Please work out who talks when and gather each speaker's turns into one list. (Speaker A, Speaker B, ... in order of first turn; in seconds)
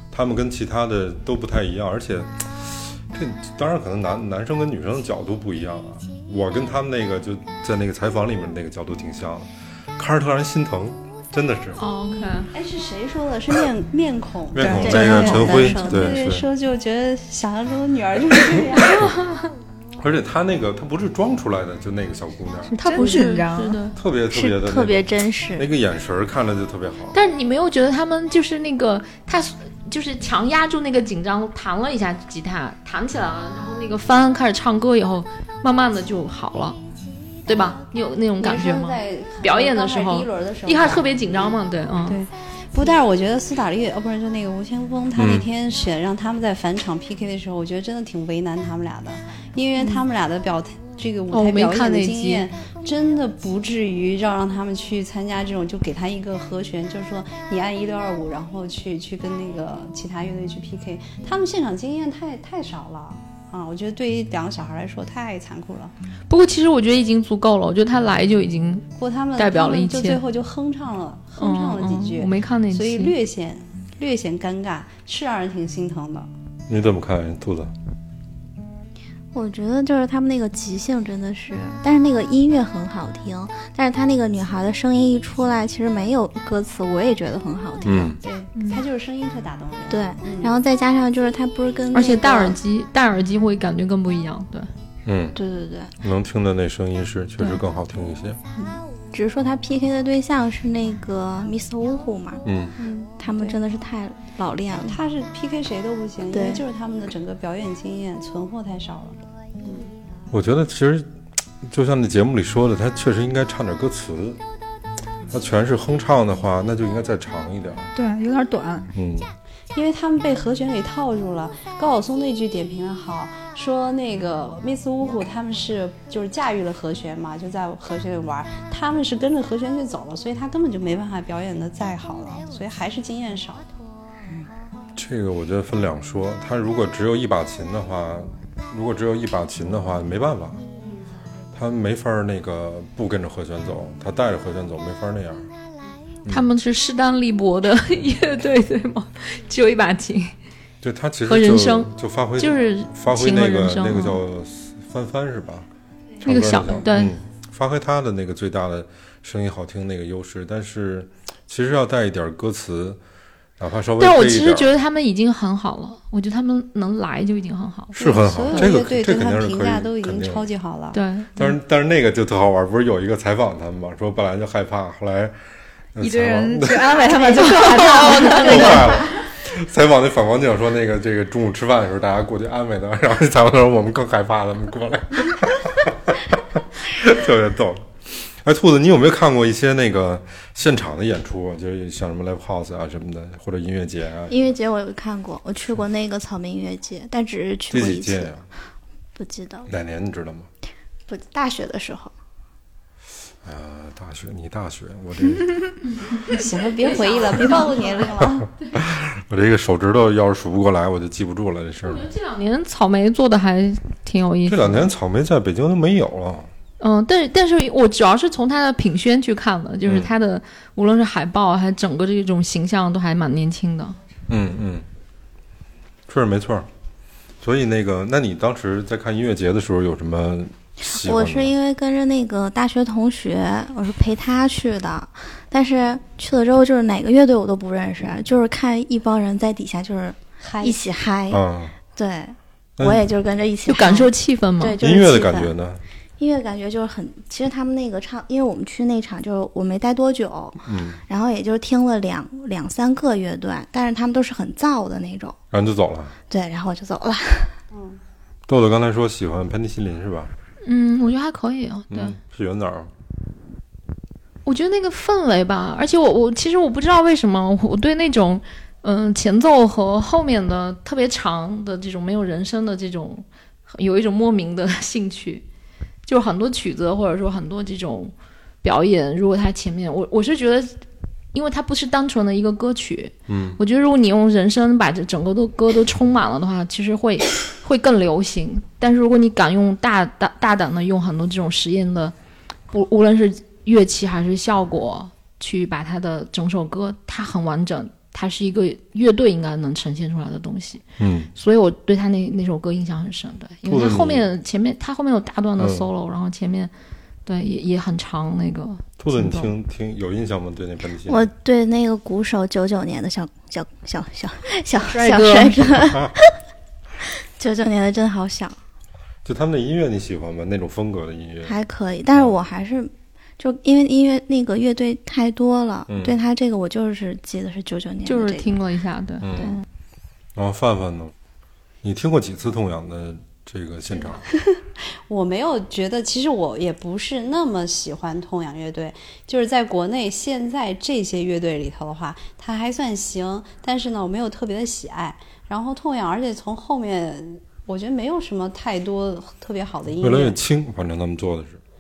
Speaker A: 0.1-11.8, 14.5-16.5, 20.0-22.7, 24.0-27.2, 45.2-45.5, 76.7-77.7, 87.8-88.2, 95.1-95.4, 96.0-98.4, 102.5-102.8, 110.3-111.1, 111.6-114.4, 115.3-117.9, 119.0-119.3, 135.0-140.6, 141.5-145.5, 150.8-155.7, 156.2-163.0, 163.6-164.7, 168.0-170.4, 171.4-175.3, 175.9-177.0, 178.3-194.6, 197.7-198.5, 199.7-200.5, 203.4-205.5, 208.8-212.1, 214.5-216.5, 219.8-220.1, 224.3-224.8, 226.1-226.7, 227.4-231.5, 241.3-241.8, 242.8-243.0, 244.8-245.8, 250.7-251.0, 255.5-256.1, 258.5-260.3, 261.9-262.9, 283.3-283.6, 301.0-301.3, 303.7-304.3, 305.6-305.9, 309.0-311.3, 315.9-316.1, 319.2-321.6, 325.9-326.1, 329.2-329.6, 330.4-331.1, 331.8-334.2, 350.0-351.6
Speaker B: 11.8-12.5, 19.0-19.4, 22.7-23.9, 27.1-36.8, 37.5-42.2, 49.8-50.0, 51.3-52.5, 66.3-70.2, 71.4-73.2, 88.5-88.8, 91.9-94.7, 146.3-150.3, 151.3-154.2, 156.2-157.1, 164.0-168.0, 170.9-171.3, 177.2-178.9, 206.2-208.8, 211.8-214.9, 216.8-224.0, 243.7-244.8, 260.6-262.2, 264.4-275.4, 276.1-280.8, 281.3-292.1, 292.7-300.8, 301.3-306.7, 307.3-309.5, 328.1-329.6
Speaker C: 12.2-19.1, 38.4-41.5, 42.1-65.9, 69.0-76.3, 88.2-90.6, 102.8-103.6, 104.9-109.2, 119.7-133.7, 167.9-171.5, 206.3-208.5, 240.4-240.8, 257.7-258.0, 335.1-350.4
Speaker D: 14.6-16.3, 24.3-25.7, 79.3-88.2, 89.9-92.6, 95.3-95.9, 98.6-102.4, 103.2-105.0, 106.3-106.6, 194.3-198.3, 199.2-199.7, 201.1-202.1, 230.8-241.4, 241.9-245.5, 246.2-255.4, 256.3-257.6, 311.1-316.2, 317.4-318.6, 321.4-328.6
Speaker E: 22.8-23.9, 118.0-118.9, 176.0-179.0, 314.9-315.6